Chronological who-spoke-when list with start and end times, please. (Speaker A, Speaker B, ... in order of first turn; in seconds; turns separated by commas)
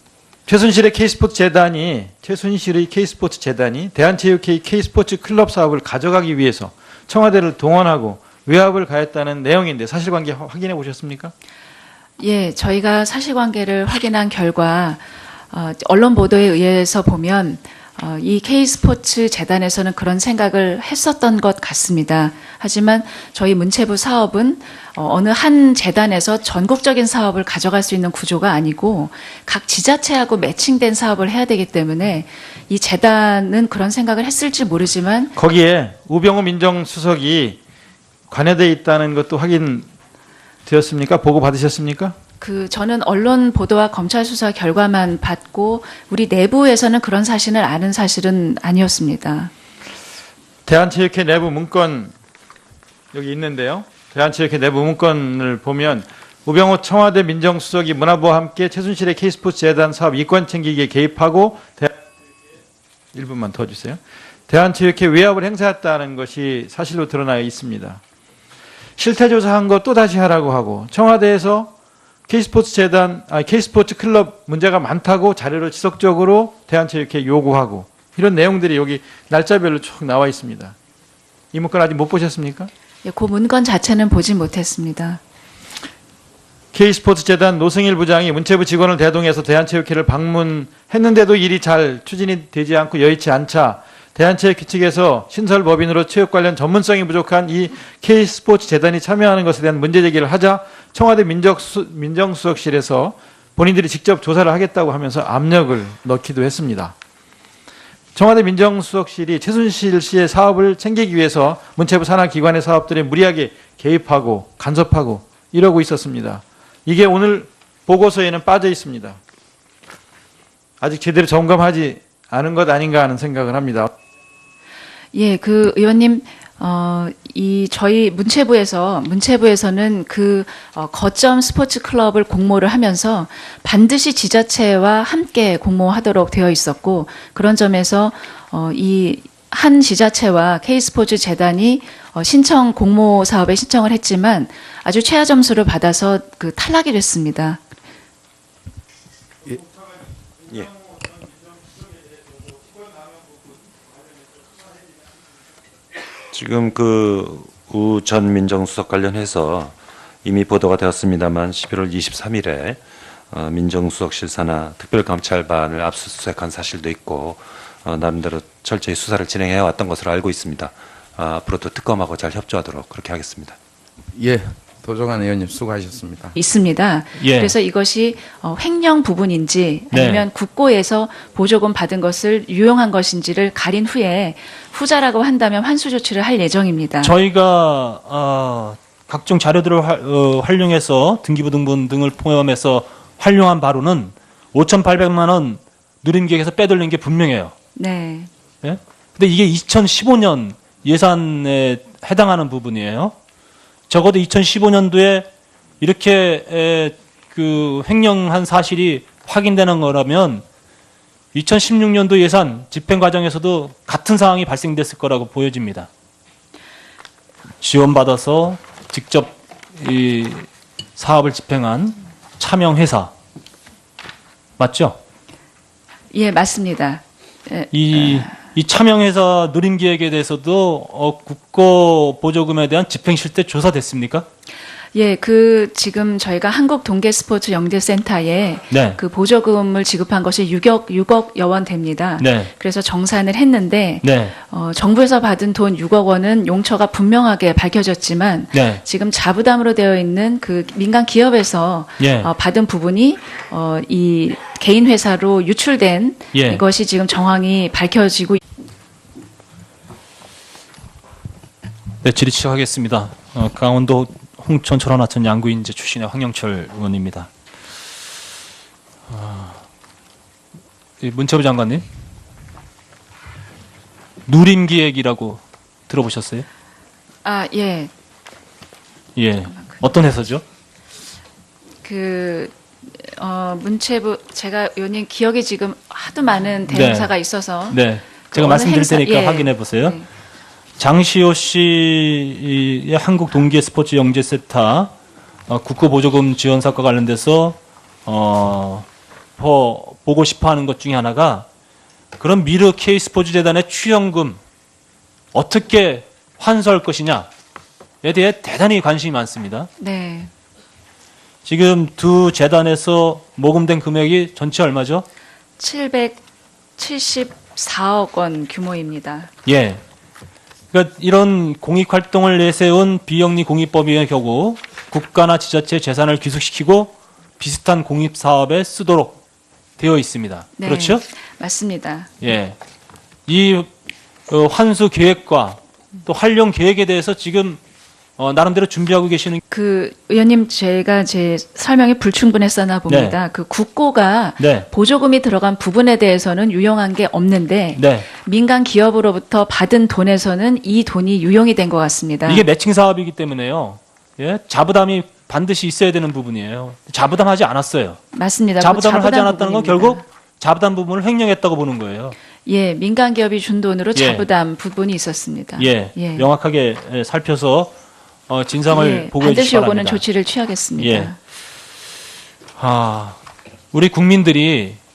Speaker A: 0.5-11.3, Speaker B: 12.2-35.4, Speaker A: 35.4-37.6, Speaker A: 38.3-39.9, Speaker A: 40.7-42.1, Speaker B: 42.4-49.5, Speaker A: 50.7-52.1, Speaker A: 53.1-62.0, Speaker A: 63.1-68.0, Speaker A: 69.0-71.7, Speaker A: 72.3-80.8, Speaker A: 81.5-82.7, Speaker B: 83.0-85.2, Speaker A: 86.7-106.9, Speaker A: 108.2-119.2, Speaker A: 120.8-123.9, Speaker B: 125.1-147.6, Speaker C: 156.3-173.6, Speaker D: 174.2-176.4, Speaker B: 176.3-187.1, Speaker E: 177.2-177.5, Speaker E: 179.9-180.2, Speaker E: 187.0-197.5, Speaker B: 197.8-198.3, Speaker E: 198.6-203.2, Speaker E: 203.9-205.3, Speaker E: 205.8-210.4, Speaker E: 211.3-215.9, Speaker E: 217.6-223.1, Speaker E: 224.6-225.0, Speaker B: 226.1-228.3, Speaker E: 227.7-234.3, Speaker B: 234.9-258.4, Speaker E: 238.7-239.0, Speaker E: 242.2-242.5, Speaker E: 244.0-244.3, Speaker E: 248.5-248.8, Speaker E: 252.0-252.3, Speaker E: 256.3-256.6, Speaker E: 262.0-267.3, Speaker E: 269.1-269.6, Speaker E: 271.0-271.8, Speaker E: 274.3-276.5, Speaker B: 277.2-277.9, Speaker E: 279.2-280.4, Speaker B: 281.8-290.1, Speaker E: 286.7-287.1, Speaker E: 287.7-290.0, Speaker E: 290.8-294.9, Speaker E: 295.5-298.9, Speaker E: 299.4-301.5, Speaker E: 302.2-304.4, Speaker E: 305.3-307.3, Speaker E: 308.0-309.7, Speaker B: 309.8-310.3, Speaker E: 311.4-315.1, Speaker B: 315.6-316.2, Speaker B: 316.8-319.3, Speaker E: 319.5-319.8, Speaker E: 320.7-329.2, Speaker E: 329.8-331.0, Speaker B: 330.6-332.1, Speaker E: 332.2-332.6, Speaker E: 333.3-333.7, Speaker E: 334.3-337.6, Speaker E: 338.2-339.4, Speaker B: 339.5-352.4, Speaker E: 342.9-343.2, Speaker E: 344.4-344.7, Speaker E: 347.8-348.1, Speaker E: 352.3-358.0, Speaker B: 358.1-360.0, Speaker E: 358.6-362.2, Speaker B: 362.5-366.3, Speaker E: 363.9-364.3, Speaker E: 365.6-367.7, Speaker E: 368.3-370.0, Speaker B: 368.7-371.2, Speaker E: 370.8-371.1, Speaker E: 372.6-373.2, Speaker E: 373.7-374.8